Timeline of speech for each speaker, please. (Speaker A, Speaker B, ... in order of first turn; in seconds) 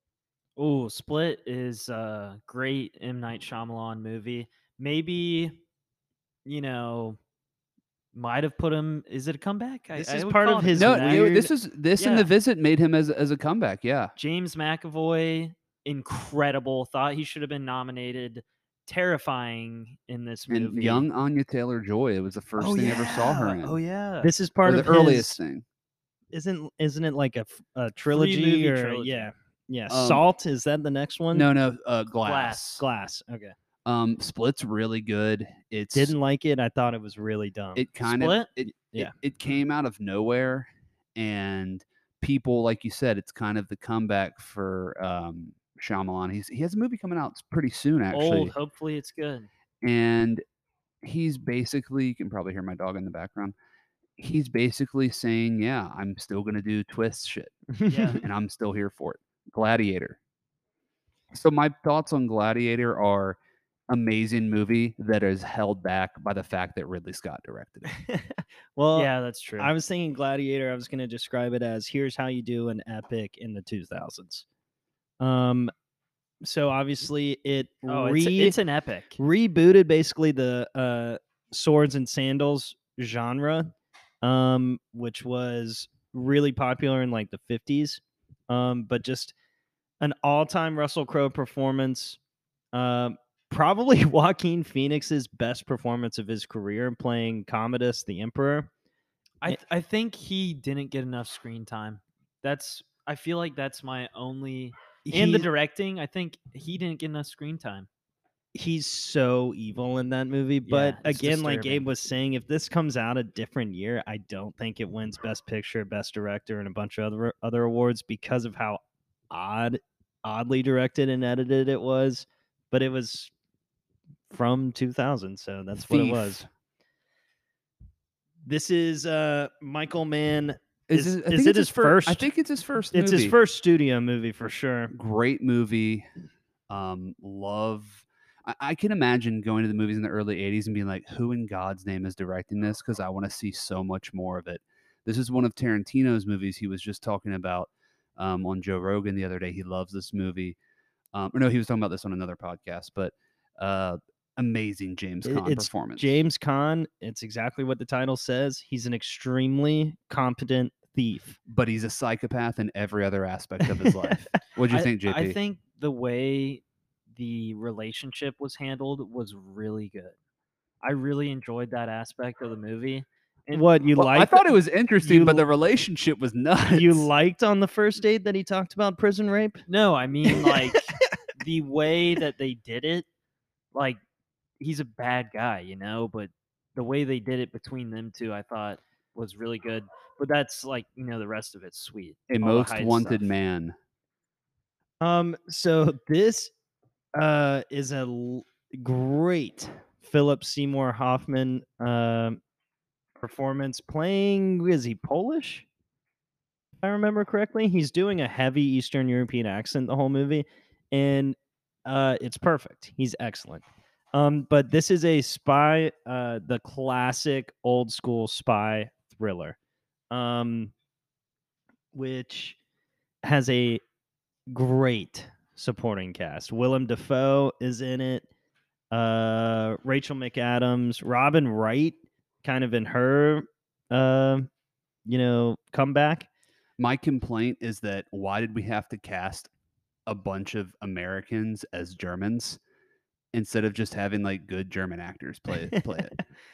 Speaker A: 0.6-5.6, 6.5-7.2, 8.1-11.3, 12.0-12.3, 14.2-21.1, 22.6-24.3, 28.1-29.3, 32.2-32.8, 38.0-38.5, 48.1-49.5, 57.9-58.2, 68.9-69.7, 77.9-79.2, 99.4-107.9, 110.7-111.8, 164.7-166.6, 167.1-170.2, 170.8-173.7, 179.7-183.1, 184.6-193.3
Speaker B: 9.9-11.5, 22.6-23.1, 24.2-25.4, 26.3-31.5, 32.8-33.5, 35.9-37.9, 38.8-39.1, 57.8-58.1, 67.9-74.4, 75.2-75.7, 76.4-78.6, 79.2-89.3, 90.0-92.2, 92.7-98.7, 105.0-105.5, 108.5-118.8, 119.3-123.3, 124.3-126.4, 128.4-132.2, 132.9-134.9, 155.2-161.4, 173.5-175.4, 176.7-179.6, 180.3-180.8, 195.0-196.5, 197.1-202.4, 203.2-205.6, 206.8-219.6, 220.1-220.7, 221.9-222.6, 223.2-223.8, 224.5-228.3, 228.9-234.5, 235.1-236.3
Speaker C: 10.7-14.1, 20.5-23.8, 24.6-25.6, 29.9-30.2, 31.3-32.8, 33.8-36.1, 37.8-48.5, 49.8-50.4, 51.0-53.5, 54.2-57.5, 58.1-60.2, 61.3-63.4, 63.9-67.9, 125.8-126.5, 130.9-133.4, 134.9-136.1, 136.7-150.6, 151.1-156.2, 161.5-165.4, 173.9-177.1, 192.3-193.7, 236.8-239.5, 240.1-242.6, 243.3-246.1